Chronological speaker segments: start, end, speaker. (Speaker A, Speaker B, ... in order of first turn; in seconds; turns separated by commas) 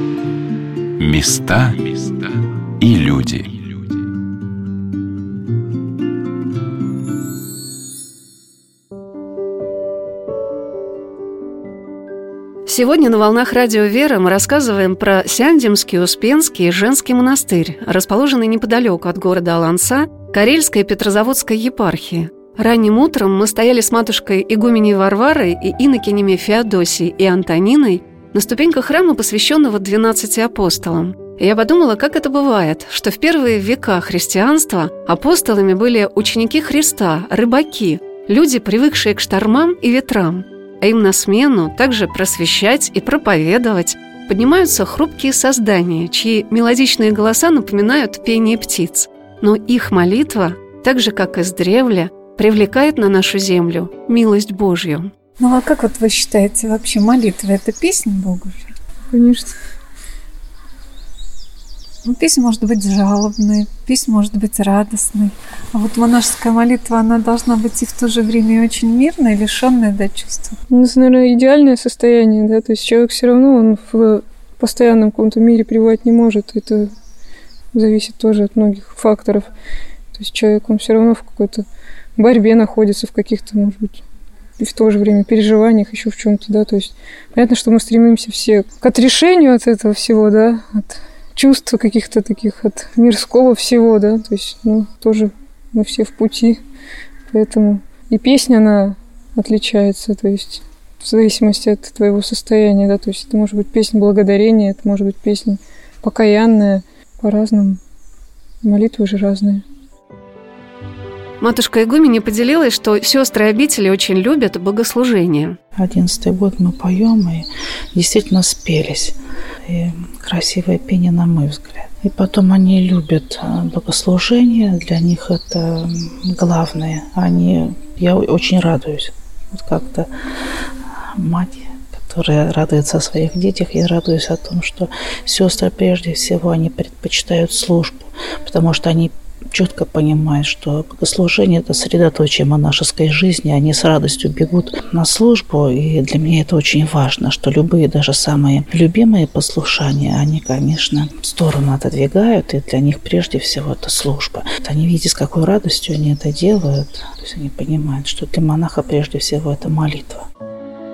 Speaker A: 1.0-3.7, Speaker B: 12.7-55.1, Speaker C: 55.4-58.7, Speaker D: 59.1-59.5, Speaker C: 62.0-70.6, Speaker D: 70.7-76.9, Speaker D: 77.7-79.5, Speaker D: 80.1-84.0, Speaker D: 84.6-96.6, Speaker D: 97.3-107.8, Speaker D: 108.6-109.6, Speaker B: 111.4-115.6, Speaker E: 115.8-130.1, Speaker E: 131.2-160.2